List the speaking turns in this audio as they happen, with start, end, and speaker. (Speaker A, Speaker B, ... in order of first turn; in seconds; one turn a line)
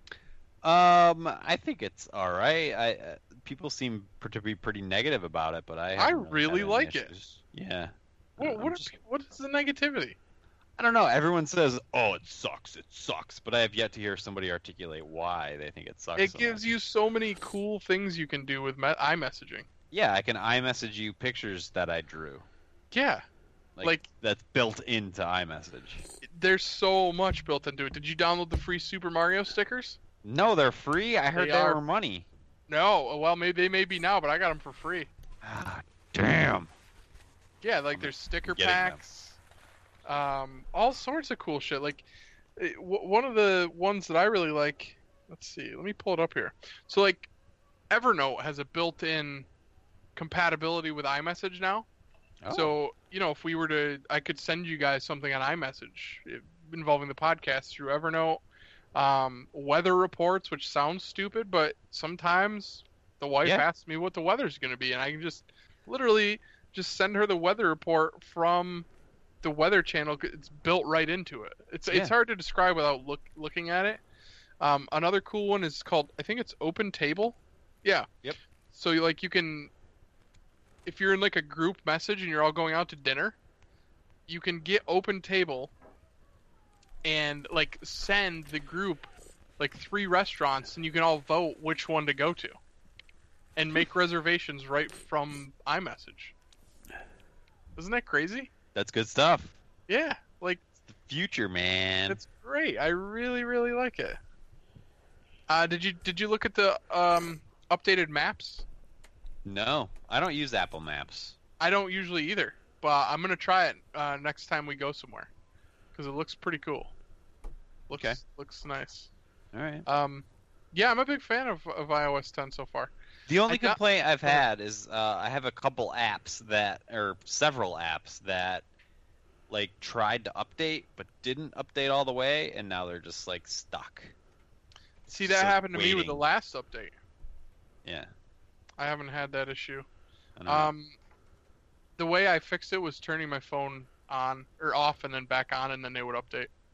Speaker A: 0.6-8.9
Speaker B: 6.0-7.1
Speaker B: 8.4-10.2
Speaker A: 10.8-16.6
Speaker B: 16.2-19.7
Speaker A: 19.9-22.4
Speaker B: 22.9-23.2
Speaker A: 23.8-26.0
Speaker B: 26.2-30.0
Speaker A: 30.2-32.2
Speaker B: 31.4-31.8
Speaker B: 32.7-35.1
Speaker A: 35.4-36.7
Speaker B: 37.6-39.4
Speaker A: 37.9-39.0
Speaker B: 40.0-42.0
Speaker B: 42.6-47.3
Speaker B: 47.9-49.5
Speaker B: 50.1-51.9
Speaker A: 52.4-52.7
Speaker B: 52.5-58.4
Speaker B: 58.9-68.9
Speaker B: 69.4-74.0
Speaker B: 74.6-78.1
Speaker B: 78.7-79.7
Speaker B: 80.8-83.4
Speaker B: 84.3-85.7
Speaker B: 87.0-92.6
Speaker B: 93.5-96.3
Speaker B: 97.8-98.5
Speaker A: 98.7-99.6
Speaker B: 99.9-100.6
Speaker A: 100.9-102.2
Speaker B: 102.1-104.2
Speaker B: 105.5-108.6
Speaker A: 109.4-111.4
Speaker B: 111.6-115.3
Speaker B: 115.9-116.9
Speaker B: 117.9-119.1
Speaker A: 117.9-118.2
Speaker A: 119.5-119.8
Speaker B: 119.8-122.9
Speaker A: 123.3-128.6
Speaker B: 123.5-124.4
Speaker A: 129.5-134.1
Speaker A: 135.1-136.2
Speaker B: 135.1-136.9
Speaker A: 137.8-138.1
Speaker B: 138.8-139.8
Speaker A: 140.4-140.7
Speaker B: 140.5-140.9
Speaker B: 142.0-146.5